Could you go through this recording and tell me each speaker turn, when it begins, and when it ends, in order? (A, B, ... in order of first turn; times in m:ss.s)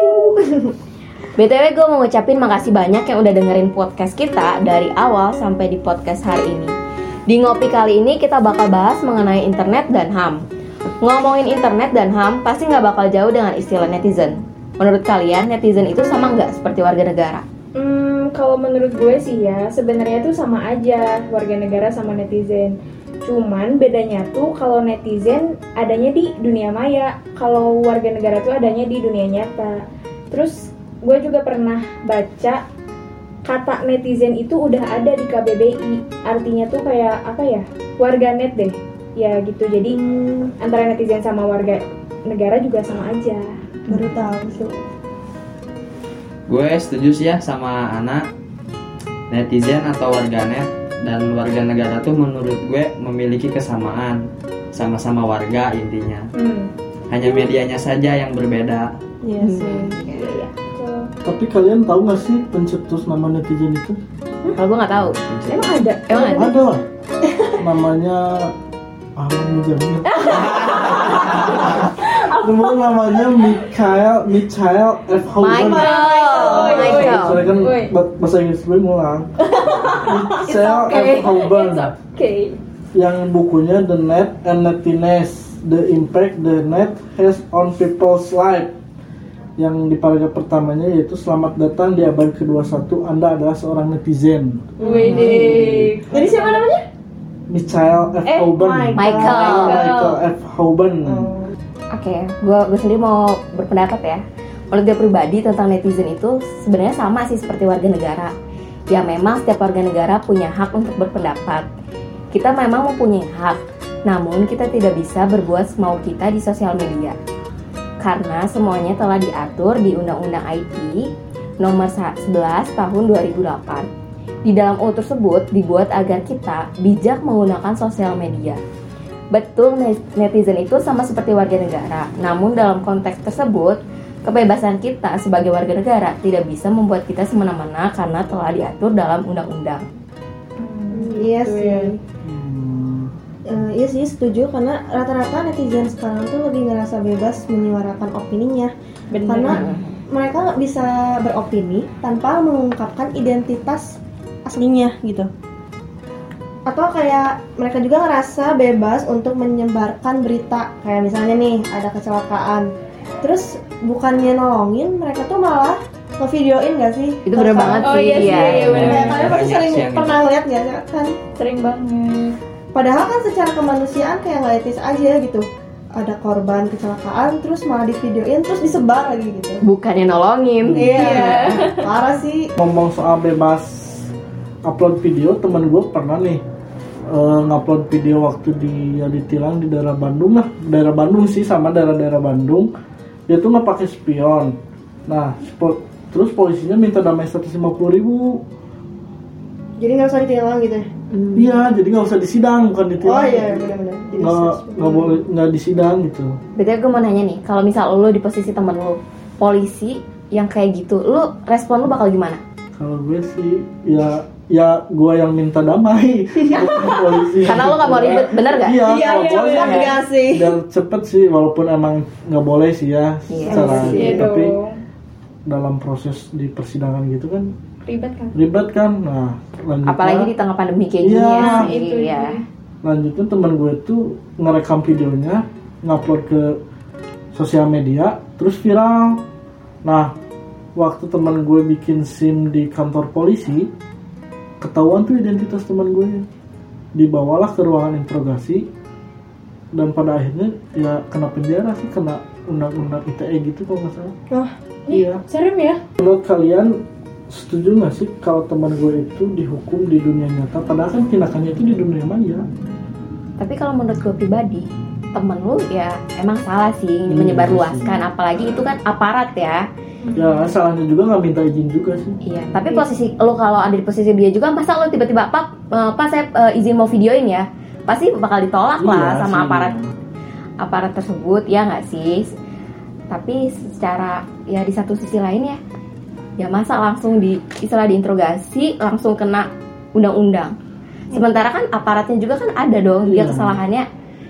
0:01.4-0:06.7 A
0:07.3-0:10.4 A
0:11.0-0:17.4 A
0:17.8-0:29.8 B
0:30.3-0:32.6 B
0:33.4-0:40.0 B
0:39.9-0:40.5 C
0:40.6-0:43.5 B
0:43.9-0:44.8 C
0:46.5-0:48.2 D
0:49.3-0:54.2 D
0:54.7-0:56.3 D
0:56.4-0:56.7 B
0:57.1-0:58.9 D
0:59.2-1:00.0 C
0:59.4-1:00.4 A
1:00.1-1:01.1 B
1:01.2-1:04.0 E
1:04.6-1:05.2 A
1:04.9-1:05.7 D
1:05.5-1:06.5 B
1:06.1-1:06.5 A
1:06.4-1:06.8 E
1:07.6-1:08.5 E
1:09.2-1:10.3 E
1:10.1-1:12.4 B
1:11.4-1:11.7 E
1:12.4-1:15.9 E
1:15.4-1:17.4 A
1:15.6-1:16.7 C
1:15.8-1:17.9 B
1:16.5-1:19.3 E
1:19.5-1:22.6 B
1:19.9-1:21.9 E
1:22.9-1:28.7 E
1:29.6-1:35.9 E
1:34.8-1:35.5 C
1:34.8-1:36.8 B
1:35.1-1:35.6 A
1:37.5-1:41.3 E
1:38.3-1:40.0 C
1:39.0-1:39.9 A
1:39.8-1:40.1 B
1:41.1-1:41.5 C
1:41.9-1:48.3 A
1:48.9-1:51.6 A
1:52.3-1:57.2 A
1:58.0-2:01.1 A
2:01.6-2:03.9 A
2:04.5-2:08.6 A
2:09.3-2:19.9 A
2:20.6-2:21.9 B
2:20.9-2:22.0 C
2:22.2-2:23.1 E
2:23.5-2:28.7 C
2:29.1-2:29.6 B
2:29.3-2:35.3 C
2:29.5-2:29.8 A
2:36.7-2:42.7 C
2:43.2-2:51.2 C
2:47.3-2:49.0 A
2:47.6-2:50.2 D
2:47.8-2:49.2 B
2:51.4-2:52.4 B
2:52.7-2:59.6 C
2:59.6-3:01.6 A
3:00.6-3:01.2 E
3:00.8-3:02.5 C
3:02.6-3:04.1 E
3:04.6-3:06.4 E
3:07.1-3:12.7 E
3:13.3-3:14.6 E
3:15.1-3:18.4 E
3:19.8-3:21.4 C
3:21.4-3:26.4 E
3:23.0-3:25.1 C
3:26.6-3:32.4 A
3:32.8-3:44.5 E
3:37.5-3:39.0 A
3:38.9-3:40.6 C
3:43.3-3:44.0 A
3:43.5-3:44.3 C
3:44.0-3:44.8 B
3:45.5-3:47.5 E
3:47.8-3:48.4 B
3:48.4-3:50.3 E
3:49.9-3:52.4 A
3:51.0-3:51.7 E
3:51.4-3:52.4 B
3:52.8-3:56.6 E
3:57.3-3:59.2 E
3:59.8-4:00.1 E
4:00.8-4:03.7 E
4:04.6-4:06.3 E
4:06.9-4:08.7 E
4:09.7-4:14.2 E
4:14.9-4:15.8 B
4:14.9-4:15.2 E
4:16.0-4:16.7 E
4:17.3-4:22.5 E
4:23.4-4:29.6 A
4:27.1-4:28.0 E
4:30.0-4:30.5 B
4:30.2-4:32.2 E
4:32.3-4:39.7 A
4:38.8-4:39.9 E
4:40.6-4:42.3 A
4:43.1-4:45.6 A
4:46.4-4:50.5 A
4:51.1-4:53.9 A
4:53.1-4:53.6 E